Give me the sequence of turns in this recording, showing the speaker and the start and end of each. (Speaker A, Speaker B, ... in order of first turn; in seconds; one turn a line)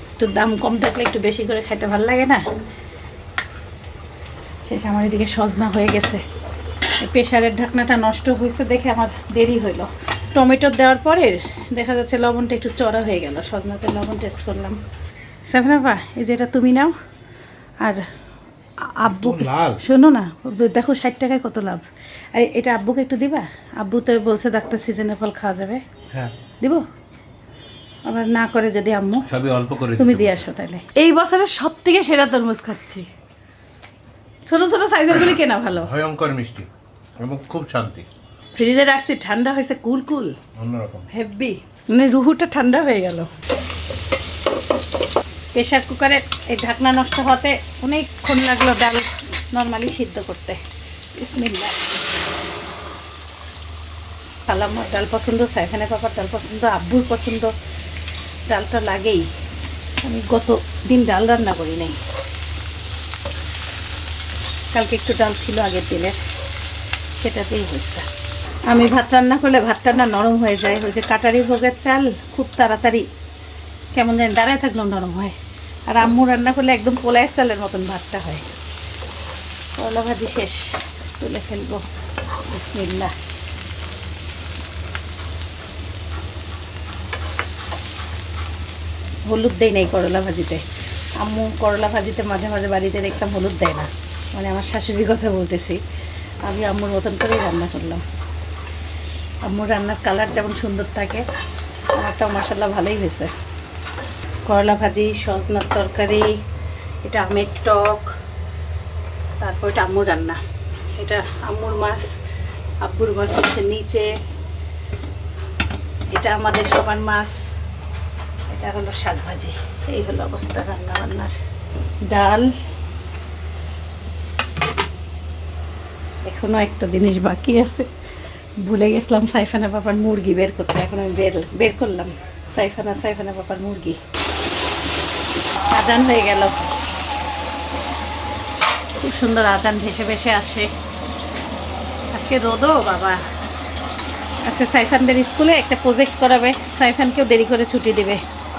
Speaker A: 0.2-2.4
Speaker A: 4.7-6.2
Speaker A: 7.0-14.8
Speaker A: 15.5-16.9
Speaker A: 19.0-25.8
Speaker B: 19.1-19.8
Speaker A: 28.1-29.2
Speaker B: 29.3-30.5
Speaker A: 30.0-33.1
Speaker A: 34.5-35.9
Speaker B: 35.1-36.7
Speaker B: 37.2-38.1
Speaker A: 38.6-40.4
Speaker B: 40.6-41.1
Speaker A: 41.1-43.3
Speaker A: 45.5-50.6
Speaker A: 51.2-51.8
Speaker A: 54.5-57.5
Speaker A: 58.5-59.3
Speaker A: 60.0-62.0
Speaker A: 64.7-66.2
Speaker A: 67.2-68.1
Speaker A: 68.7-73.1
Speaker A: 74.0-75.3
Speaker A: 75.9-78.4
Speaker A: 79.8-81.9
Speaker A: 82.5-83.1
Speaker A: 89.3-90.6
Speaker A: 91.2-95.8
Speaker A: 96.5-98.0
Speaker A: 99.5-101.2
Speaker A: 102.0-103.3
Speaker A: 104.5-106.3
Speaker A: 107.0-108.1
Speaker A: 109.4-110.4
Speaker A: 111.0-112.1
Speaker A: 112.8-114.1
Speaker A: 116.1-117.4
Speaker A: 118.5-121.4
Speaker A: 122.1-122.5
Speaker A: 126.3-127.9
Speaker A: 128.6-134.0
Speaker A: 135.7-136.6
Speaker A: 139.0-140.7
Speaker A: 142.1-143.2
Speaker A: 144.5-148.2